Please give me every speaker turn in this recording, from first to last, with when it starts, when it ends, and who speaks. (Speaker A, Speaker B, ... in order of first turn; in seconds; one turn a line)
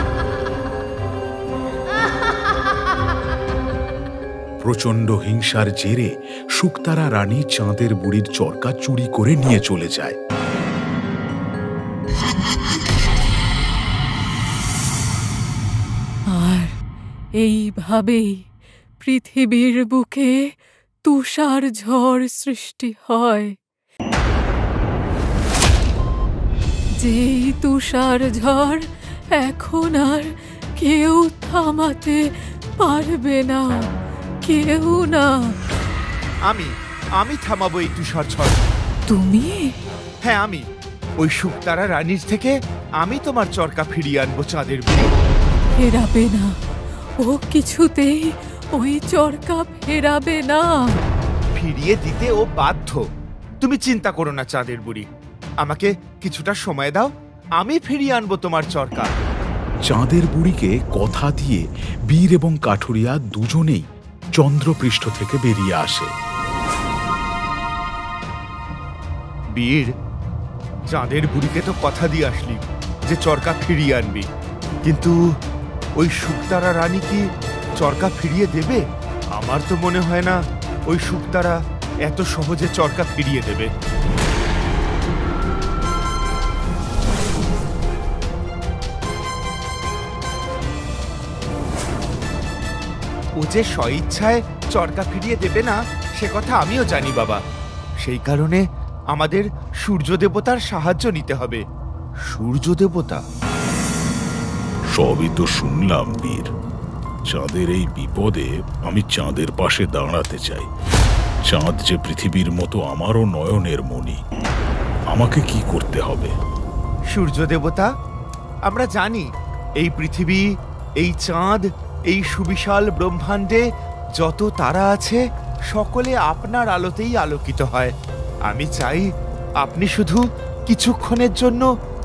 Speaker A: 4.6-10.2
Speaker B: 16.3-16.8
Speaker B: 17.4-18.4
Speaker B: 19.0-20.4
Speaker B: 21.0-23.6
Speaker B: 27.0-32.3
Speaker B: 32.8-33.7
Speaker B: 34.4-35.5
Speaker C: 36.5-38.6
Speaker B: 39.1-39.7
Speaker C: 40.2-40.6
Speaker C: 41.2-45.1
Speaker B: 45.8-46.5
Speaker B: 47.2-51.0
Speaker C: 51.6-53.0
Speaker C: 53.6-55.1
Speaker C: 55.6-59.1
Speaker A: 59.9-63.9
Speaker A: 64.4-66.1
Speaker C: 69.5-69.9
Speaker C: 70.9-74.3
Speaker C: 74.9-75.2
Speaker C: 76.0-77.2
Speaker C: 77.8-78.8
Speaker C: 79.4-80.4
Speaker C: 80.9-83.7
Speaker C: 93.4-97.4
Speaker C: 98.0-101.6
Speaker C: 102.3-103.2
Speaker A: 105.0-106.5
Speaker A: 107.3-110.7
Speaker A: 111.5-114.2
Speaker A: 115.1-116.3
Speaker C: 117.1-117.9
Speaker C: 118.7-119.2
Speaker C: 119.8-120.4
Speaker C: 121.0-123.6
Speaker C: 124.2-127.9
Speaker C: 128.5-129.1
Speaker C: 129.6-131.7